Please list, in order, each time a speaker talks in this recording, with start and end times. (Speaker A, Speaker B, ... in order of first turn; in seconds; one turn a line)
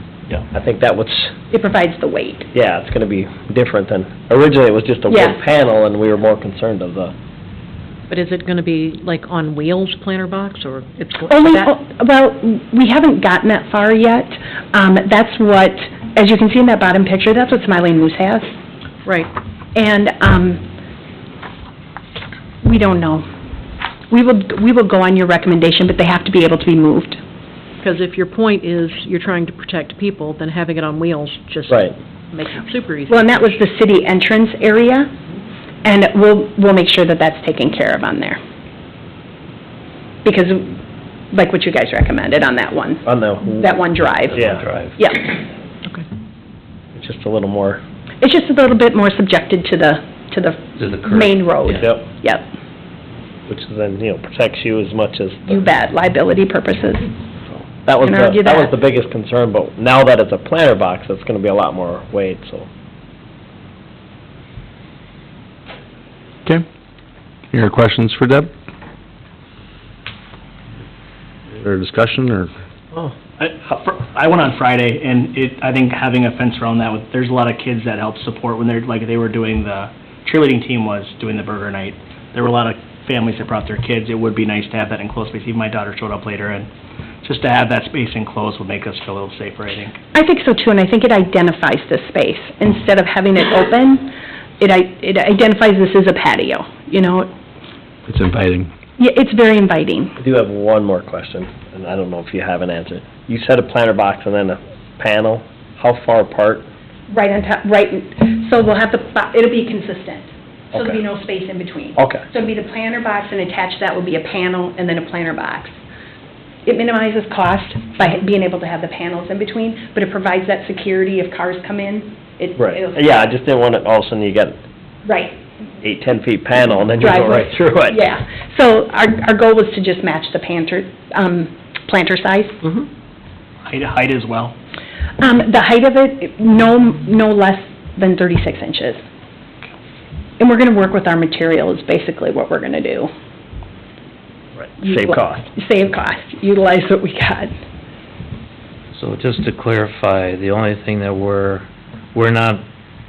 Speaker A: 0.5-1.3
Speaker B: 1.5-2.5
Speaker A: 2.5-7.1
Speaker B: 5.1-5.4
Speaker C: 8.1-11.7
Speaker B: 11.3-18.5
Speaker C: 19.0-19.3
Speaker B: 19.7-20.6
Speaker B: 22.6-23.3
Speaker B: 24.1-27.2
Speaker C: 27.8-33.6
Speaker B: 33.1-35.1
Speaker B: 35.8-38.4
Speaker B: 40.2-40.8
Speaker B: 41.3-44.4
Speaker A: 43.0-43.8
Speaker D: 44.3-45.0
Speaker A: 44.3-44.6
Speaker B: 45.0-45.3
Speaker A: 46.9-47.8
Speaker B: 48.2-52.5
Speaker D: 50.8-51.9
Speaker A: 53.5-55.6
Speaker B: 55.5-57.1
Speaker A: 57.8-62.7
Speaker B: 58.0-58.7
Speaker E: 67.5-68.5
Speaker E: 71.6-72.5
Speaker F: 73.4-86.7
Speaker F: 87.2-89.9
Speaker B: 90.1-97.3
Speaker E: 98.1-98.7
Speaker B: 99.0-100.2
Speaker A: 100.2-106.7
Speaker B: 107.1-115.7
Speaker B: 116.6-123.0
Speaker A: 122.6-124.6
Speaker B: 125.0-125.4
Speaker A: 125.8-128.0
Speaker B: 127.0-132.7
Speaker F: 133.7-134.6
Speaker B: 135.2-139.0
Speaker B: 140.4-143.1
Speaker B: 144.8-147.5
Speaker A: 144.8-145.5
Speaker D: 148.9-152.6